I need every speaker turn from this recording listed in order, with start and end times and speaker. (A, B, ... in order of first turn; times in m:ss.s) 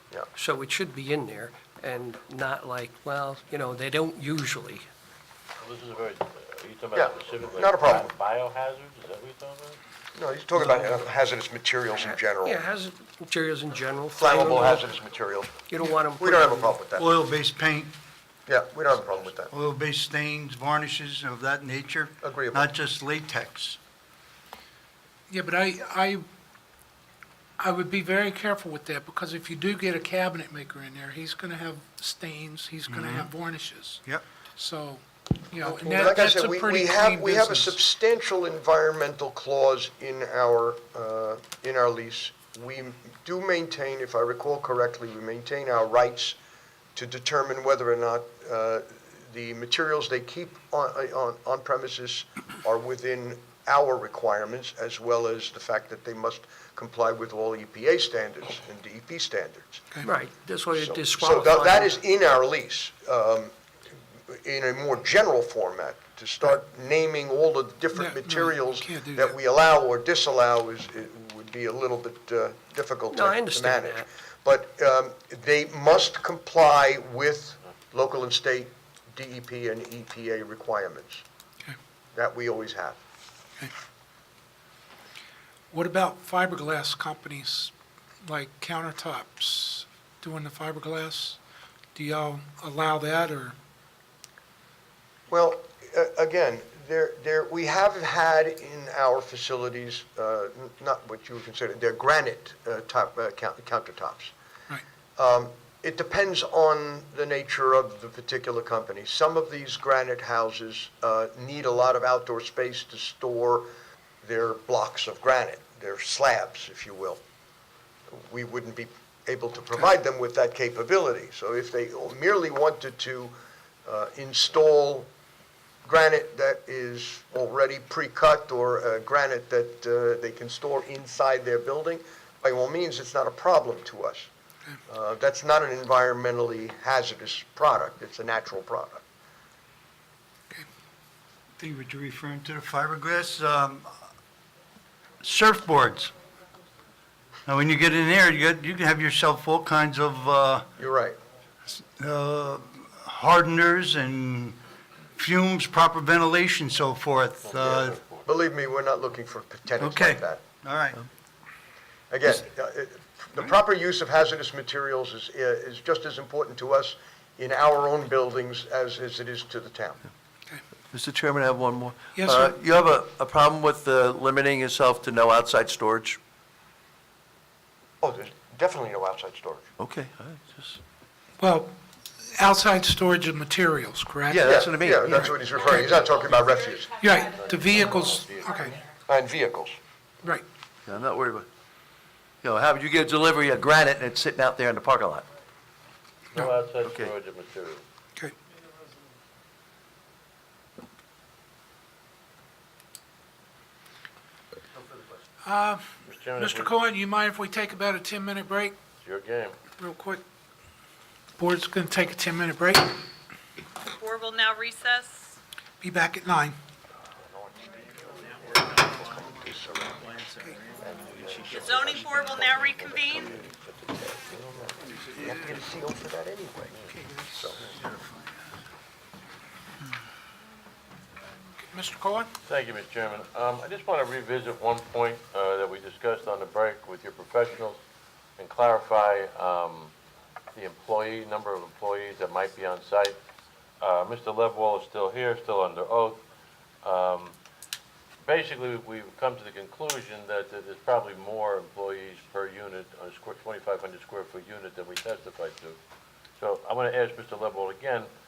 0:00.3-0:04.8 A
0:05.6-0:09.8 B
0:06.9-0:08.1 C
0:10.1-0:12.6 C
0:12.0-0:14.8 A
0:14.1-0:15.6 C
0:15.7-0:16.7 A
0:16.2-0:17.1 C
0:17.0-0:17.9 D
0:18.5-0:19.5 C
0:19.5-0:23.8 D
0:22.2-0:22.6 C
0:25.3-0:26.2 E
0:27.6-0:34.0 E
0:32.9-0:33.3 D
0:34.6-0:37.8 E
0:35.6-0:36.3 A
0:35.8-0:46.4 C
0:46.9-0:59.8 C
1:00.0-1:02.0 A
1:00.7-1:03.5 C
1:04.3-1:21.2 C
1:07.9-1:09.4 E
1:13.1-1:14.1 A
1:22.1-1:23.0 C
1:25.7-1:27.7 E
1:28.2-1:31.4 E
1:31.9-1:33.6 E
1:35.3-1:44.3 C
1:45.2-1:53.7 C
1:54.2-1:57.2 C
1:58.1-2:03.3 C
2:03.8-2:05.1 C
2:05.8-2:14.3 C
2:14.9-2:19.0 C
2:21.6-2:23.9 D
2:25.2-2:26.1 D
2:27.4-2:30.7 D
2:30.8-2:31.2 C
2:32.0-2:34.6 D
2:35.2-2:38.0 D
2:37.4-2:38.3 B
2:38.2-2:40.4 C
2:39.8-2:41.0 D
2:42.1-2:50.0 C
2:50.9-2:56.2 F
2:52.1-2:52.6 E
2:58.0-2:59.7 C
2:59.8-3:00.8 F
3:01.4-3:01.7 E
3:02.4-3:04.4 E
3:04.3-3:05.4 F
3:04.4-3:06.9 C
3:06.9-3:08.8 E
3:07.3-3:08.8 B
3:09.1-3:09.8 C
3:10.8-3:11.5 F
3:12.4-3:15.2 F
3:16.3-3:17.8 B
3:16.8-3:17.1 F
3:25.4-3:25.8 E
3:26.1-3:26.7 B
3:26.4-3:28.8 E
3:29.0-3:29.6 B
3:29.8-3:30.2 E
3:31.4-3:33.0 E
3:33.9-3:35.1 G
3:35.8-3:36.6 E
3:37.2-3:40.2 C
3:40.8-3:46.8 C
3:41.6-3:43.2 G
3:46.9-3:47.5 E
3:47.4-3:47.7 C
3:51.7-3:52.3 E
3:52.4-3:57.8 B
3:58.4-3:59.9 B
4:00.5-4:03.2 B
4:03.8-4:06.2 B
4:06.8-4:07.3 B
4:08.2-4:15.8 B
4:16.4-4:18.1 B